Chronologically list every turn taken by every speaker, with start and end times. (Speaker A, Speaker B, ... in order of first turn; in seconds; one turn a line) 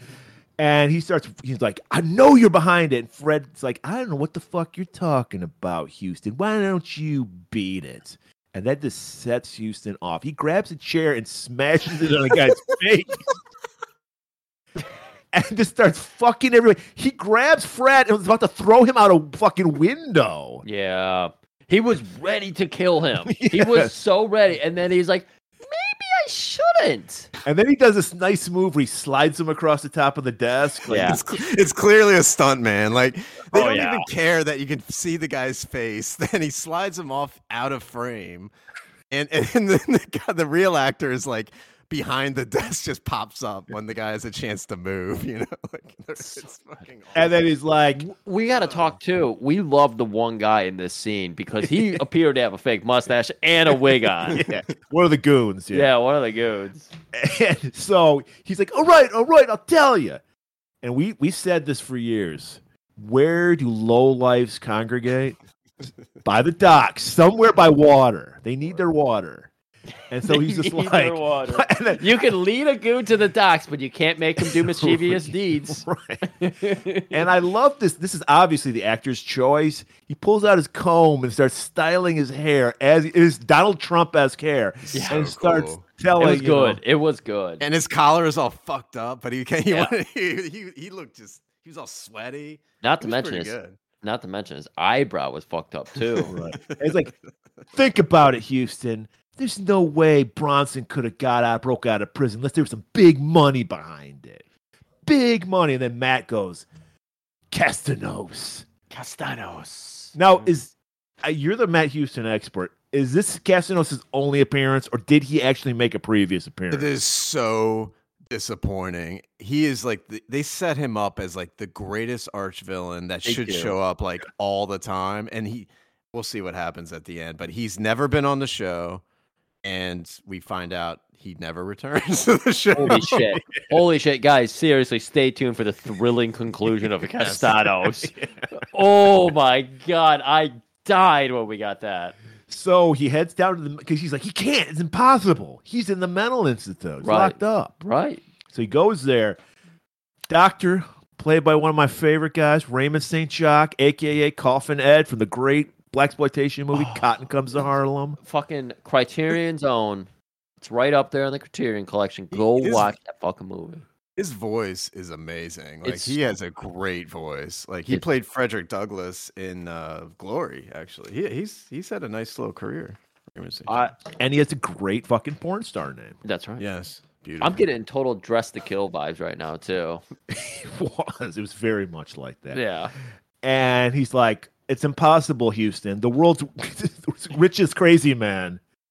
Speaker A: 0.6-13.2
Speaker A: 15.3-20.6
Speaker B: 20.6-27.3
Speaker A: 23.2-23.9
Speaker A: 27.4-31.2
Speaker B: 30.9-31.2
Speaker C: 30.9-38.5
Speaker B: 33.5-34.1
Speaker C: 39.1-47.3
Speaker B: 46.2-46.5
Speaker A: 47.1-48.1
Speaker B: 48.0-54.5
Speaker C: 48.6-48.9
Speaker A: 51.6-51.9
Speaker A: 54.3-55.9
Speaker B: 55.7-56.9
Speaker A: 57.1-60.2
Speaker A: 60.8-65.4
Speaker A: 66.2-69.5
Speaker A: 70.1-72.2
Speaker B: 70.3-77.3
Speaker A: 74.4-76.2
Speaker A: 77.1-86.8
Speaker C: 84.9-85.8
Speaker B: 84.9-85.2
Speaker B: 86.2-87.6
Speaker C: 87.6-93.8
Speaker B: 92.8-96.3
Speaker C: 96.1-96.8
Speaker A: 96.3-97.1
Speaker A: 97.7-104.4
Speaker A: 105.0-106.7
Speaker A: 107.5-108.7
Speaker B: 108.9-110.1
Speaker A: 110.1-116.9
Speaker C: 116.7-129.0
Speaker B: 123.2-123.8
Speaker C: 129.6-133.2
Speaker B: 132.7-142.2
Speaker A: 132.8-133.4
Speaker A: 137.2-138.5
Speaker A: 142.5-147.7
Speaker B: 147.0-148.2
Speaker A: 148.5-149.4
Speaker A: 150.3-158.2
Speaker B: 158.2-160.1
Speaker B: 160.6-163.8
Speaker C: 162.3-162.9
Speaker C: 164.2-173.7
Speaker B: 165.8-166.2
Speaker B: 173.7-173.9
Speaker A: 174.1-176.2
Speaker B: 176.2-176.6
Speaker C: 176.6-177.6
Speaker B: 177.4-180.0
Speaker A: 180.3-182.6
Speaker B: 182.5-182.9
Speaker A: 183.4-188.6